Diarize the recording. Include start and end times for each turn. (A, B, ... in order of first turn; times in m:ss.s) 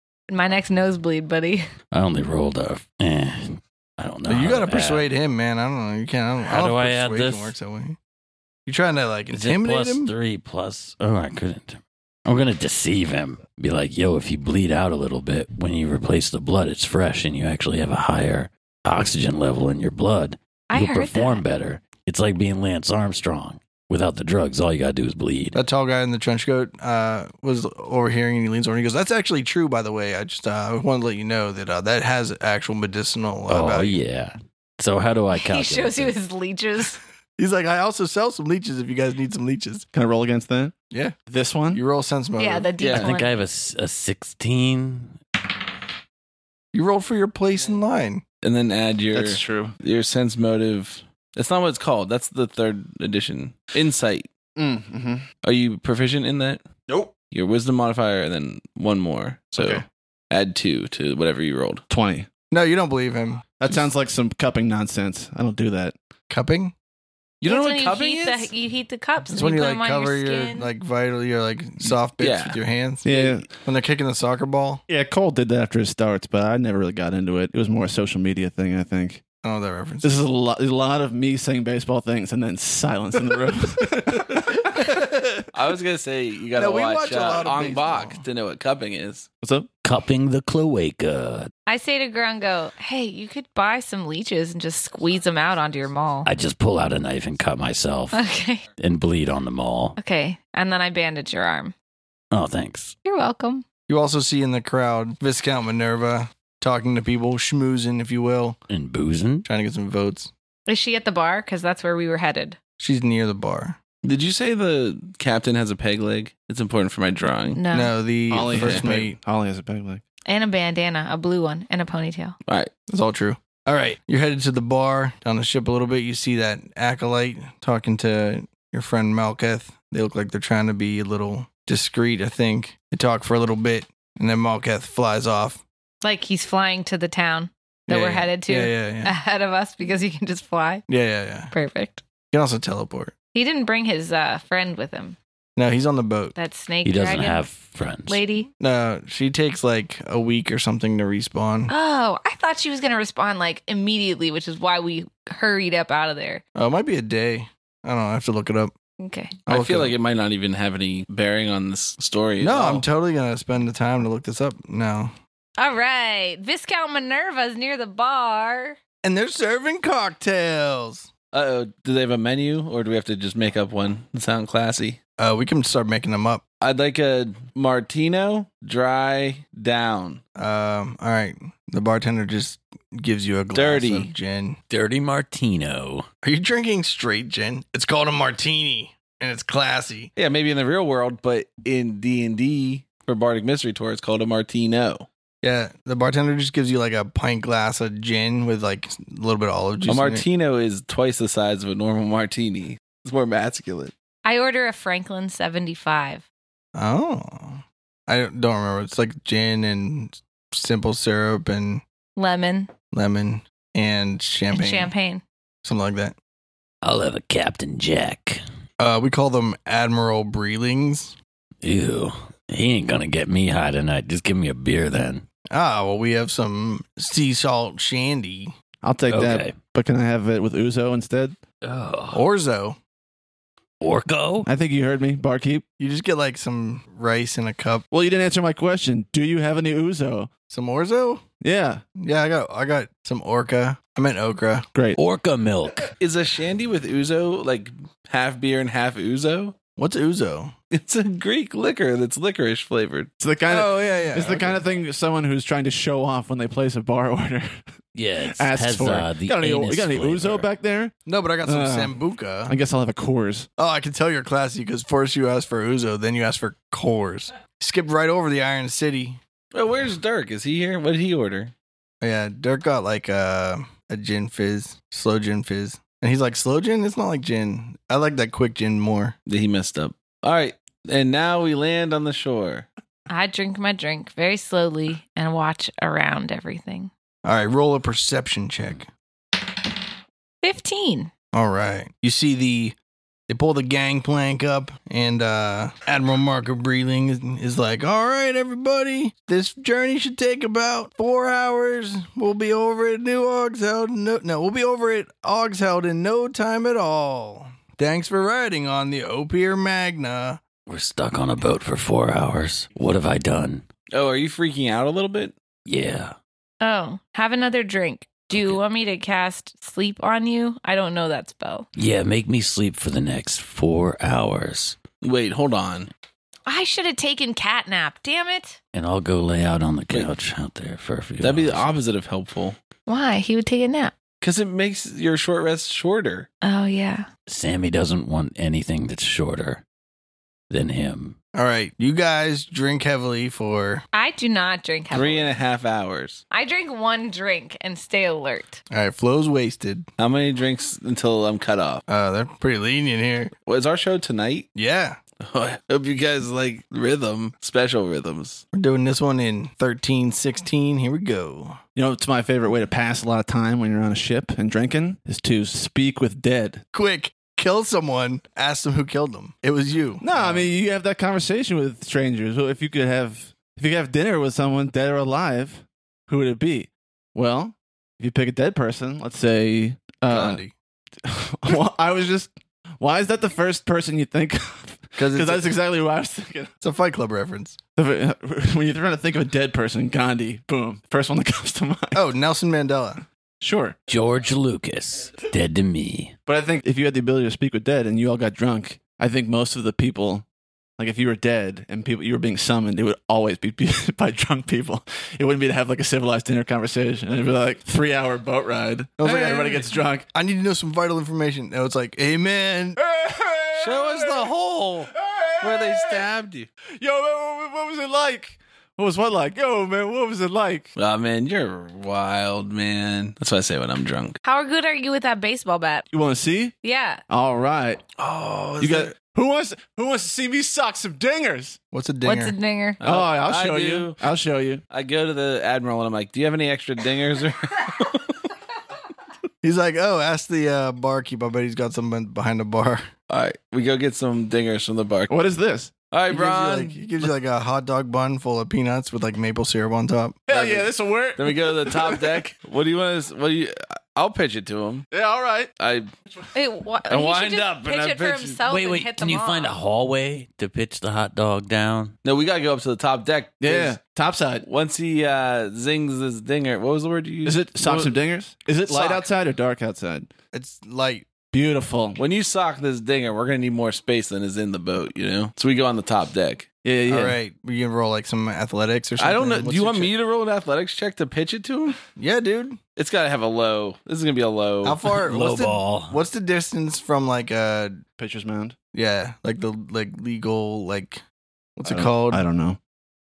0:00.3-0:01.6 A
0:01.9-0:05.0 B
0:04.2-0:08.0 C
0:06.4-0:07.5 B
0:08.6-0:10.1 C
0:09.3-0:25.6 B
0:20.7-0:21.4 A
0:25.5-0:34.0 C
0:33.5-0:36.1 B
0:35.3-0:37.0 A
0:37.4-0:39.8 C
0:39.9-0:40.7 D
0:41.3-0:41.8 D
0:41.7-0:42.7 C
0:42.4-0:43.4 A
0:42.8-0:43.1 E
0:42.9-0:45.2 B
0:46.7-0:48.2 C
0:48.4-0:54.3 E
0:49.1-0:49.7 D
0:54.6-0:55.2 D
0:55.4-0:56.6 E
0:57.3-1:01.8 E
0:59.6-0:59.8 D
1:01.9-1:02.3 D
1:02.5-1:03.8 C
1:03.6-1:05.9 D
1:06.3-1:06.7 C
1:07.4-1:08.5 E
1:07.4-1:10.7 A
1:09.3-1:14.8 C
1:12.2-1:12.6 E
1:13.0-1:13.5 D
1:14.9-1:19.2 D
1:19.4-1:20.2 C
1:20.0-1:25.0 D
1:24.7-1:25.0 C
1:25.5-1:29.3 E
1:26.5-1:28.2 C
1:29.4-1:29.7 D
1:29.8-1:31.5 B
1:31.7-1:36.3 A
1:36.2-1:38.2 B
1:38.1-1:38.6 A
1:38.8-1:40.0 B
1:40.0-1:41.7 A
1:42.3-1:42.9 B
1:43.0-1:43.6 A
1:43.9-1:48.6 C
1:48.7-1:49.5 B
1:49.5-1:50.3 C
1:50.7-1:52.6 A
1:52.8-1:53.8 C
1:54.0-1:57.6 E
1:57.5-1:57.9 A
1:57.7-1:59.2 C
1:58.3-2:00.0 D
1:58.5-1:58.8 E
2:00.2-2:02.4 A
2:02.9-2:15.6 C
2:16.0-2:20.8 A
2:17.9-2:19.1 C
2:20.9-2:21.5 C
2:21.5-2:22.0 A
2:22.3-2:23.1 C
2:23.3-2:25.2 A
2:25.6-2:26.3 C
2:26.3-2:27.4 A
2:26.8-2:28.2 B
2:28.1-2:28.5 A
2:28.6-2:31.7 C
2:31.7-2:36.4 A
2:36.5-2:38.7 C
2:39.0-2:39.3 A
2:39.5-2:39.9 C
2:39.5-2:42.8 E
2:42.4-2:45.1 C
2:45.6-2:48.8 A
2:49.0-2:51.1 C
2:51.3-2:55.0 E
2:55.2-2:56.4 C
2:56.6-3:00.2 E
3:00.4-3:04.6 C
3:03.5-3:04.1 E
3:04.7-3:06.0 B
3:06.2-3:10.1 C
3:10.2-3:15.1 E
3:15.4-3:20.2 C
3:19.8-3:23.9 E
3:24.2-3:26.2 A
3:26.7-3:31.8 C
3:32.2-3:32.7 A
3:32.9-3:34.9 C
3:34.5-3:35.2 A
3:35.6-3:36.2 C
3:36.8-3:38.4 B
3:38.8-3:41.2 C
3:41.6-3:45.2 B
3:45.5-3:48.5 C
3:48.8-3:51.4 D
3:49.1-3:49.6 B
3:51.6-3:52.2 B
3:52.1-3:52.8 C
3:53.8-3:54.5 B
3:54.4-3:55.6 D
3:55.8-3:57.8 C
3:57.9-4:00.3 D
4:00.5-4:01.2 C
4:01.4-4:01.8 D
4:02.0-4:04.7 C
4:05.0-4:05.9 B
4:06.0-4:09.5 E
4:09.8-4:10.5 C
4:10.7-4:13.1 E
4:13.2-4:17.6 D
4:13.5-4:14.6 C
4:17.9-4:20.5 B
4:18.2-4:20.9 D
4:21.0-4:22.6 C
4:21.4-4:23.5 D
4:23.6-4:29.2 C
4:29.5-4:31.5 E
4:32.0-4:39.2 C
4:39.3-4:42.7 E
4:43.1-4:46.9 A
4:47.2-4:48.9 C
4:50.4-4:51.1 A
4:51.3-4:52.8 C
4:53.3-5:10.4 C
5:10.7-5:13.6 B
5:13.9-5:15.3 E
5:15.6-5:16.2 B
5:16.6-5:21.7 A
5:18.3-5:18.6 B
5:21.8-5:24.8 B
5:25.0-5:25.9 E
5:26.5-5:28.6 A
5:28.7-5:31.7 B
5:31.2-5:32.6 E
5:32.9-5:33.9 A
5:34.2-5:36.3 E
5:36.4-5:37.1 A
5:37.3-5:39.6 B
5:40.5-5:41.2 B
5:41.3-5:43.8 C
5:43.9-5:45.4 A
5:44.9-5:46.2 E
5:46.3-5:48.6 A
5:48.7-5:49.8 C
5:50.0-5:51.8 E
5:51.9-5:53.3 C
5:53.5-5:54.5 E
5:54.5-5:55.0 C
5:55.2-5:58.4 E
5:58.5-6:01.6 C
6:01.7-6:06.6 D
6:06.7-6:10.5 C
6:10.0-6:20.4 D
6:20.1-6:20.5 C
6:21.0-6:26.5 D
6:25.0-6:25.5 C
6:26.6-6:27.6 C
6:27.8-6:32.0 D
6:31.9-6:33.0 C
6:33.4-6:33.8 D
6:33.9-6:36.1 B
6:36.3-6:40.2 D
6:40.8-6:50.0 D
6:49.0-6:52.8 C
6:52.8-6:54.3 D
6:53.6-6:56.5 E
6:54.9-6:56.0 D
6:56.8-7:00.7 D
7:00.8-7:04.2 E
7:04.2-7:05.9 A
7:05.9-7:06.5 D
7:06.6-7:07.0 A
7:07.1-7:07.8 D
7:08.0-7:08.9 E
7:08.6-7:11.6 D
7:11.7-7:12.3 C
7:12.0-7:12.8 A
7:12.8-7:14.0 E
7:12.8-7:14.6 D
7:14.7-7:18.1 E
7:19.4-7:22.9 C
7:23.1-7:25.1 E
7:25.1-7:25.7 D
7:25.9-7:26.8 E
7:26.1-7:30.3 C
7:30.3-7:32.2 D
7:30.3-7:30.6 E
7:31.2-7:34.9 E
7:34.9-7:35.5 D
7:35.6-7:35.9 E
7:36.3-7:39.6 A
7:36.9-7:38.4 E
7:38.4-7:41.9 B
7:42.0-7:43.8 E
7:43.4-7:44.4 D
7:44.4-7:47.9 E
7:47.2-7:50.1 D
7:48.7-7:49.0 C
7:50.3-7:51.1 C
7:51.3-7:52.0 D
7:52.0-7:56.4 E
7:56.6-7:57.2 D
7:56.9-7:59.9 C
7:59.0-8:01.8 E
8:02.0-8:02.6 C
8:02.8-8:04.8 E
8:04.6-8:07.8 C
8:04.9-8:06.0 B
8:08.0-8:08.6 D
8:08.7-8:11.0 C
8:11.6-8:12.2 C
8:11.7-8:12.6 D